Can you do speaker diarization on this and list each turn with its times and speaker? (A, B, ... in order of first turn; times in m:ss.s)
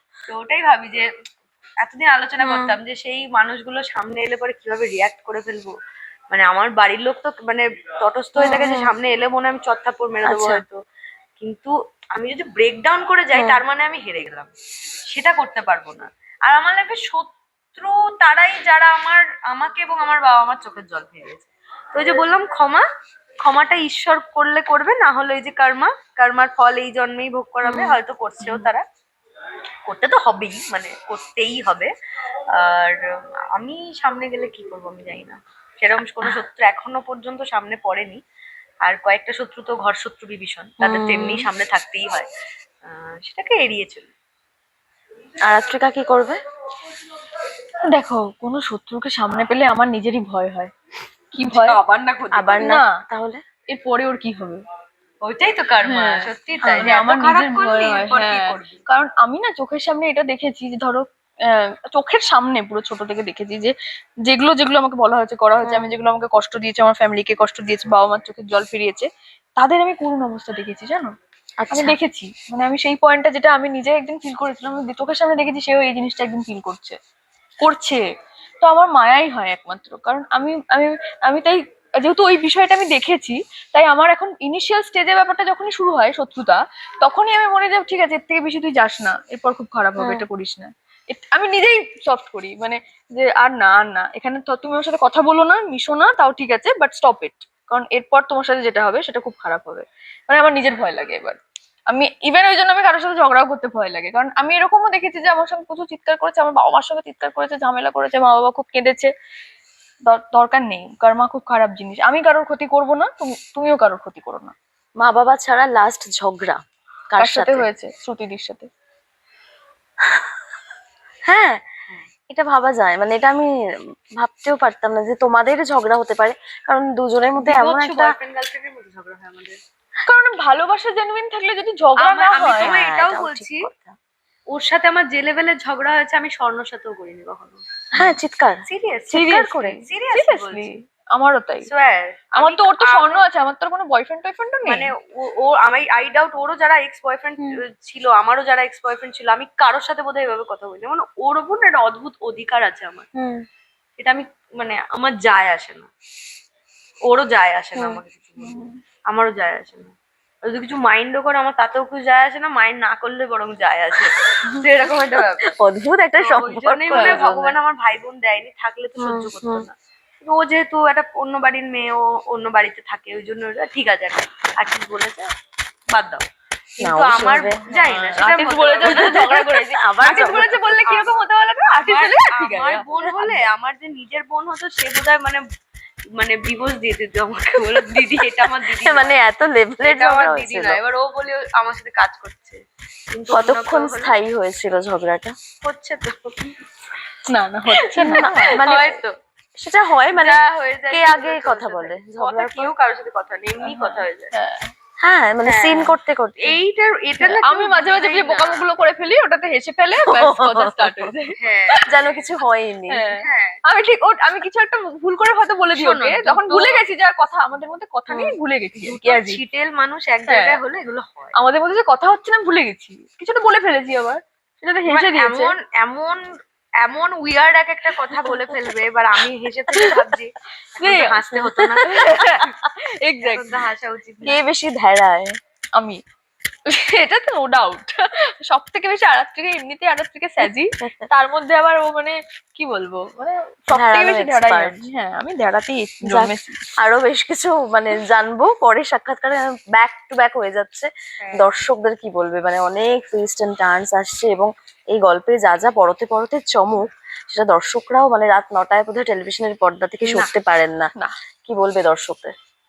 0:00.3-0:01.1 A
0:01.8-0:05.7 A
0:02.4-0:02.8 B
0:06.3-0:10.8 A
0:08.4-0:08.9 B
0:10.2-0:10.6 B
0:11.4-0:14.5 A
0:13.3-0:13.6 B
0:15.1-0:22.8 A
0:23.4-0:28.8 A
0:27.6-0:28.7 B
0:29.9-0:31.9 A
0:32.6-0:33.0 A
0:33.6-0:38.2 A
0:38.8-0:42.3 A
0:40.8-0:41.5 B
0:42.8-0:44.1 A
0:45.5-0:46.4 B
0:47.9-0:50.7 C
0:51.3-0:51.8 C
0:51.4-0:52.8 A
0:52.3-0:53.4 B
0:52.6-0:52.9 C
0:53.7-0:54.6 C
0:55.2-0:58.8 A
0:55.8-1:03.7 C
0:56.7-0:56.9 B
1:04.2-1:11.1 C
1:05.6-1:05.9 B
1:11.6-1:12.0 B
1:11.7-1:17.0 C
1:17.6-1:18.0 C
1:18.6-1:41.4 C
1:30.0-1:30.3 B
1:41.9-1:49.1 C
1:50.1-1:54.5 C
1:55.0-1:57.7 B
1:57.2-1:58.7 C
2:01.2-2:01.6 B
2:02.3-2:03.5 B
2:04.2-2:08.1 B
2:07.4-2:09.6 A
2:10.1-2:12.7 C
2:12.0-2:13.6 A
2:12.5-2:13.9 B
2:14.5-2:17.6 A
2:17.9-2:18.6 B
2:18.7-2:19.3 A
2:19.1-2:21.6 C
2:19.3-2:19.8 B
2:19.8-2:20.7 A
2:21.6-2:23.2 A
2:22.4-2:24.9 C
2:24.6-2:33.1 A
2:33.2-2:33.4 B
2:34.0-2:35.9 A
2:37.1-2:39.9 A
2:37.7-2:38.0 B
2:38.4-2:38.8 C
2:40.4-2:45.5 A
2:45.6-2:47.4 B
2:46.2-2:55.3 A
2:46.9-2:47.5 C
2:49.0-2:49.6 B
2:55.9-2:56.2 A
2:56.8-3:05.4 A
2:56.8-2:57.6 B
2:57.7-3:02.8 C
2:58.8-3:00.6 B
3:03.0-3:03.4 B
3:06.1-3:09.2 A
3:08.6-3:10.8 B
3:09.8-3:12.6 A
3:13.1-3:14.1 A
3:13.3-3:15.3 B
3:15.6-3:16.5 A
3:17.3-3:18.6 C
3:17.8-3:19.1 A
3:18.0-3:19.0 B
3:19.6-3:20.4 B
3:20.1-3:24.3 A
3:20.9-3:22.7 B
3:23.6-3:24.7 C
3:25.0-3:26.6 B
3:25.4-3:28.6 A
3:27.2-3:31.8 C
3:30.0-3:31.1 B
3:31.4-3:32.4 A
3:31.9-3:33.1 B
3:32.9-3:39.4 C
3:33.2-3:33.6 A
3:35.7-3:36.8 A
3:38.8-3:41.3 A
3:40.3-3:40.6 C
3:41.3-3:45.5 C
3:44.8-3:46.2 A
3:46.8-3:52.5 A
3:49.7-3:50.0 C
3:50.8-3:51.3 C
3:51.8-3:53.6 C
3:53.2-3:54.4 A
3:54.2-3:56.0 C
3:56.7-4:06.7 C
4:03.7-4:04.8 B
4:06.0-4:20.9 B
4:11.2-4:11.7 A
4:20.0-4:20.3 C
4:21.4-4:22.3 B